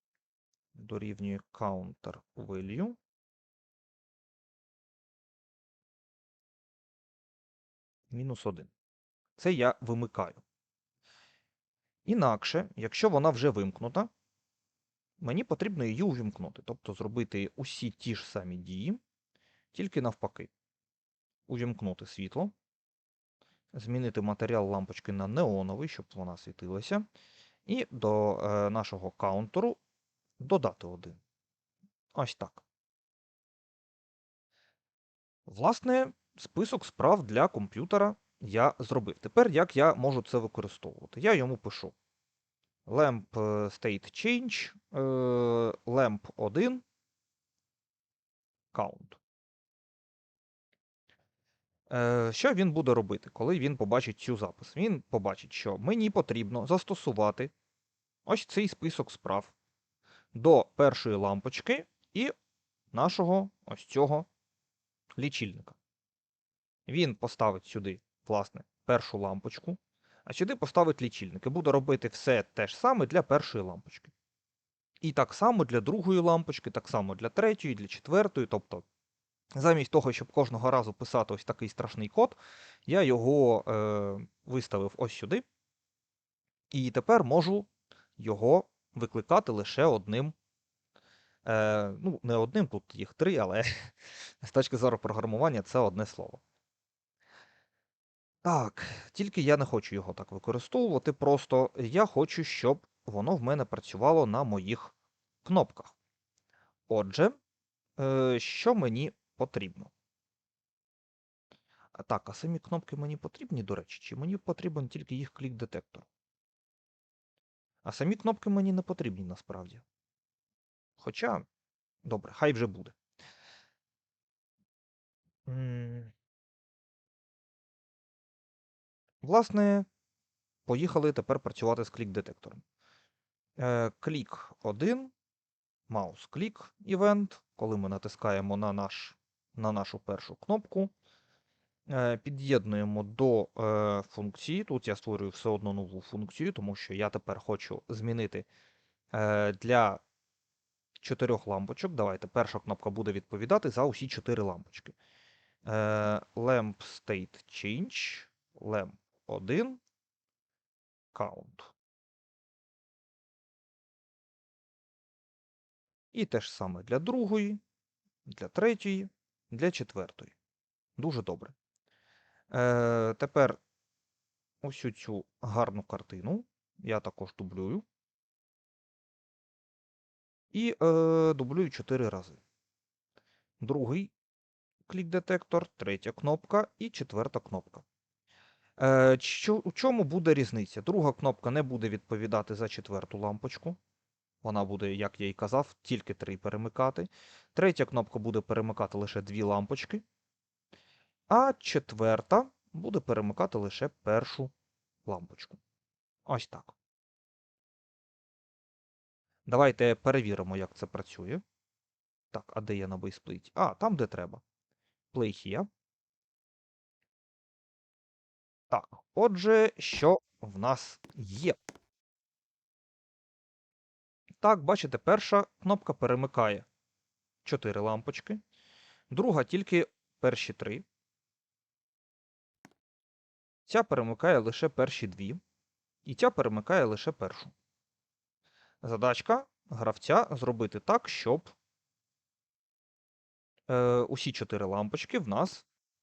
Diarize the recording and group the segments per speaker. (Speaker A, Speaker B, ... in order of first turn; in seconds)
Speaker A: 0.7-3.0, 8.1-8.7, 9.4-10.4, 12.1-14.1, 15.2-19.0, 19.7-20.5, 21.5-22.5, 23.7-27.1, 27.6-29.8, 30.4-31.2, 32.1-32.6, 35.5-41.9, 42.9-46.8, 48.7-49.2, 51.9-57.5, 58.2-59.5, 60.3-62.3, 62.9-64.3, 65.2-65.8, 66.9-74.1, 75.0-78.8, 79.5-85.4, 86.7-90.3, 91.4-96.4, 98.4-106.0, 106.9-107.4, 108.0-109.9, 111.9-116.1, 117.8-119.8, 121.0-121.4, 122.0-123.0, 125.5-126.1, 129.2-129.9, 130.7-132.6, 133.6-135.1, 135.9-140.9, 141.9-148.5, 149.1-150.0, 151.0-154.9, 155.6-159.8, 161.1-161.7, 166.1-167.6, 168.2-170.3, 171.0-171.5, 172.5-173.6, 174.6-177.8, 180.5-182.4, 183.6-184.1, 184.9-187.8, 188.8-193.8, 194.4-200.0, 201.3-204.5, 205.1-205.6, 206.2-206.7, 209.4-211.4, 212.3-214.4, 215.1-215.7, 218.7-221.6, 224.4-226.7, 227.4-228.4, 229.1-230.8, 233.7-235.4, 236.0-237.5, 238.8-241.5, 243.7-245.7